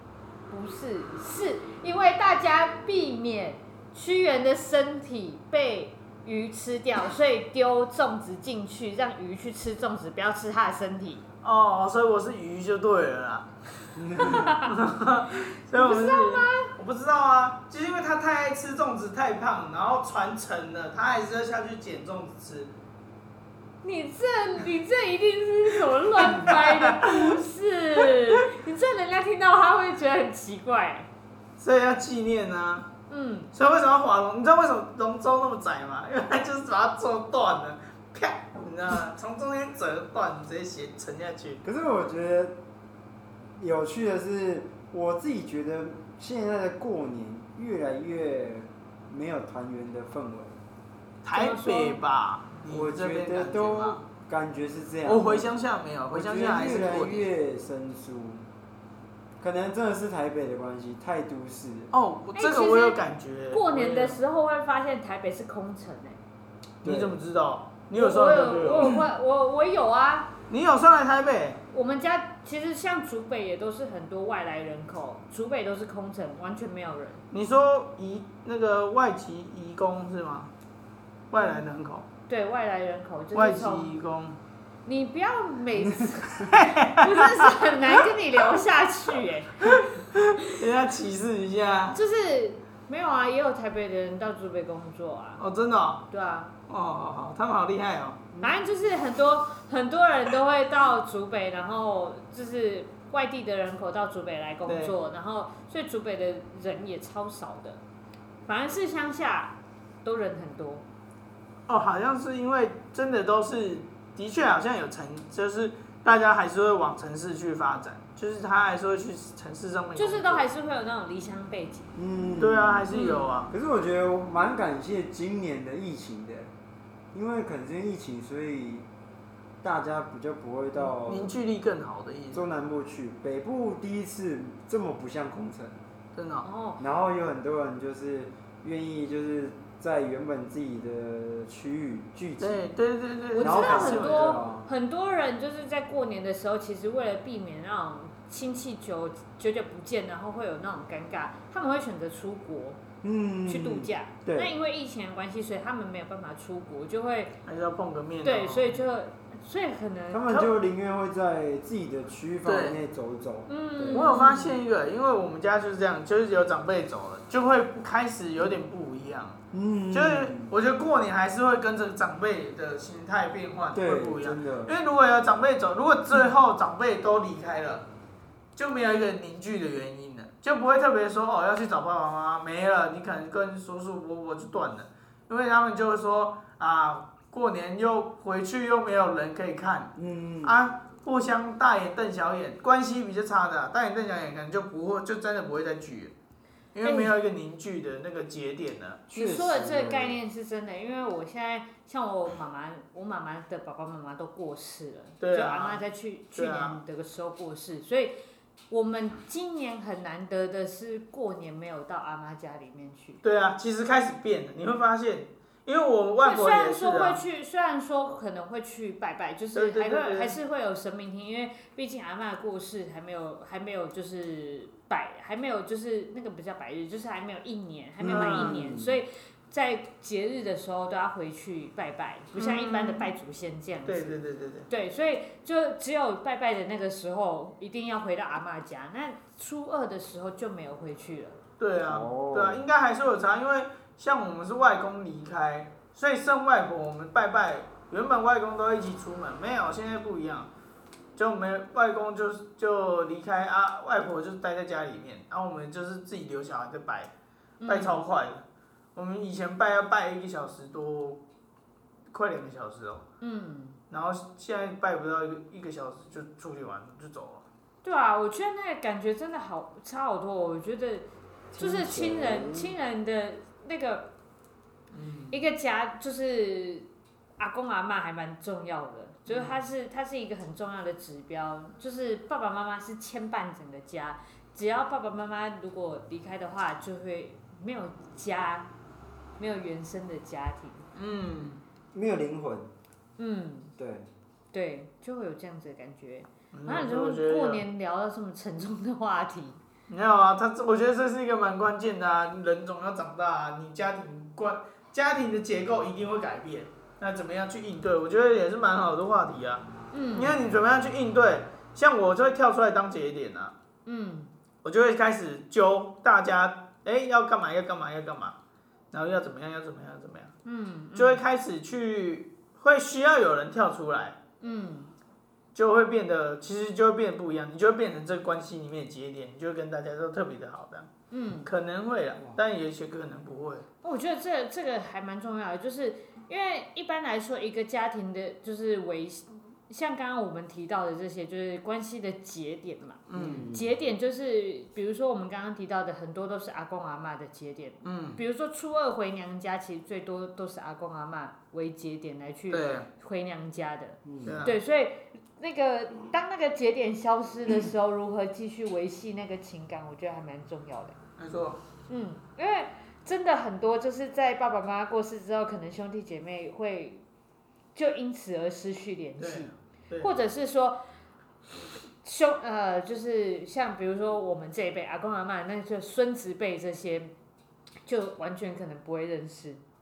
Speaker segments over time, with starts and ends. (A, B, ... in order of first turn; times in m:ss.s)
0:00.5-0:11.2 A
0:11.4-0:13.5 B
0:14.0-0:14.6 C
0:14.2-0:14.7 A
0:14.6-0:22.7 B
0:15.3-0:16.7 A
0:23.8-0:31.1 A
0:26.2-0:27.3 B
0:31.6-0:32.9 B
0:33.1-0:33.5 A
0:33.5-0:41.6 B
0:41.6-0:42.6 C
0:43.6-0:50.6 C
0:51.2-0:54.1 B
0:51.3-0:52.0 A
0:52.7-0:55.5 C
0:55.1-0:57.3 B
0:56.1-0:58.5 C
0:59.4-1:01.9 C
1:01.9-1:04.2 B
1:02.4-1:03.0 A
1:03.5-1:06.2 A
1:06.8-1:09.0 B
1:06.8-1:07.2 C
1:07.9-1:10.3 A
1:10.5-1:11.6 B
1:11.7-1:17.2 A
1:17.3-1:20.5 B
1:21.3-1:22.1 B
1:22.3-1:23.9 A
1:23.3-1:24.4 B
1:24.8-1:29.8 A
1:26.0-1:26.5 C
1:26.4-1:27.9 B
1:29.6-1:32.0 B
1:31.9-1:35.4 A
1:35.4-1:36.1 B
1:36.1-1:36.5 A
1:36.7-1:38.3 B
1:38.4-1:47.8 A
1:44.7-1:45.0 B
1:48.5-1:50.8 A
1:51.7-2:00.5 B
2:00.0-2:01.9 A
2:02.0-2:02.9 C
2:02.4-2:03.5 B
2:02.9-2:03.3 A
2:03.5-2:06.5 C
2:07.1-2:08.9 C
2:09.6-2:11.3 C
2:10.8-2:12.4 B
2:12.3-2:15.8 C
2:16.2-2:16.5 B
2:16.4-2:16.8 A
2:16.8-2:22.6 C
2:22.4-2:24.5 B
2:23.3-2:32.8 A
2:23.4-2:24.7 C
2:33.0-2:34.5 C
2:33.5-2:37.4 A
2:37.4-2:38.8 B
2:38.2-2:40.4 A
2:40.1-2:44.1 C
2:42.4-2:42.8 B
2:43.5-2:44.6 A
2:43.9-2:49.4 B
2:49.5-2:50.5 C
2:49.9-2:57.9 B
2:53.7-2:54.8 C
2:58.6-3:16.1 B
3:10.0-3:10.6 C
3:16.7-3:19.0 B
3:16.8-3:17.1 A
3:19.1-3:20.2 C
3:19.1-3:28.2 A
3:25.2-3:25.8 B
3:26.4-3:26.8 B
3:28.7-3:33.2 A
3:33.2-3:37.2 B
3:36.2-4:01.4 A
3:39.5-3:40.4 B
3:48.0-3:49.0 C
3:48.1-3:48.6 B
3:52.4-3:53.1 B
3:53.9-3:54.7 B
4:01.6-4:10.5 B
4:01.8-4:02.6 C
4:11.2-4:17.1 B
4:17.6-4:18.0 A
4:17.7-4:18.4 B
4:19.0-4:21.2 B
4:22.1-4:23.0 B
4:23.2-4:23.8 A
4:23.9-4:27.5 B
4:27.8-4:31.1 A
4:31.5-4:32.7 C
4:31.6-4:34.1 A
4:34.9-4:35.4 B
4:35.3-4:48.7 A
4:39.3-4:39.6 B
4:49.4-4:50.8 A
4:51.0-4:51.6 B
4:51.9-4:52.7 C
4:53.2-4:53.7 A
4:53.8-4:54.1 C
4:54.5-4:59.6 A
4:56.5-4:57.6 B
4:59.9-5:13.5 B
5:09.9-5:10.4 A
5:13.9-5:14.3 A
5:14.6-5:18.4 B
5:18.9-5:20.3 B
5:20.4-5:21.2 A
5:21.0-5:24.2 B
5:24.4-5:24.9 A
5:25.5-5:30.9 B
5:31.1-5:31.5 A
5:31.4-5:33.7 B
5:33.8-6:01.0 A
5:43.1-5:43.5 B
5:43.2-5:43.7 C
5:47.8-5:48.2 B
5:52.5-5:52.9 B
5:54.0-5:54.4 C
5:54.2-5:54.6 B
6:01.2-6:01.6 B
6:01.9-6:07.0 A
6:07.8-6:10.8 A
6:09.2-6:10.1 B
6:12.0-6:17.1 A
6:17.8-6:19.6 A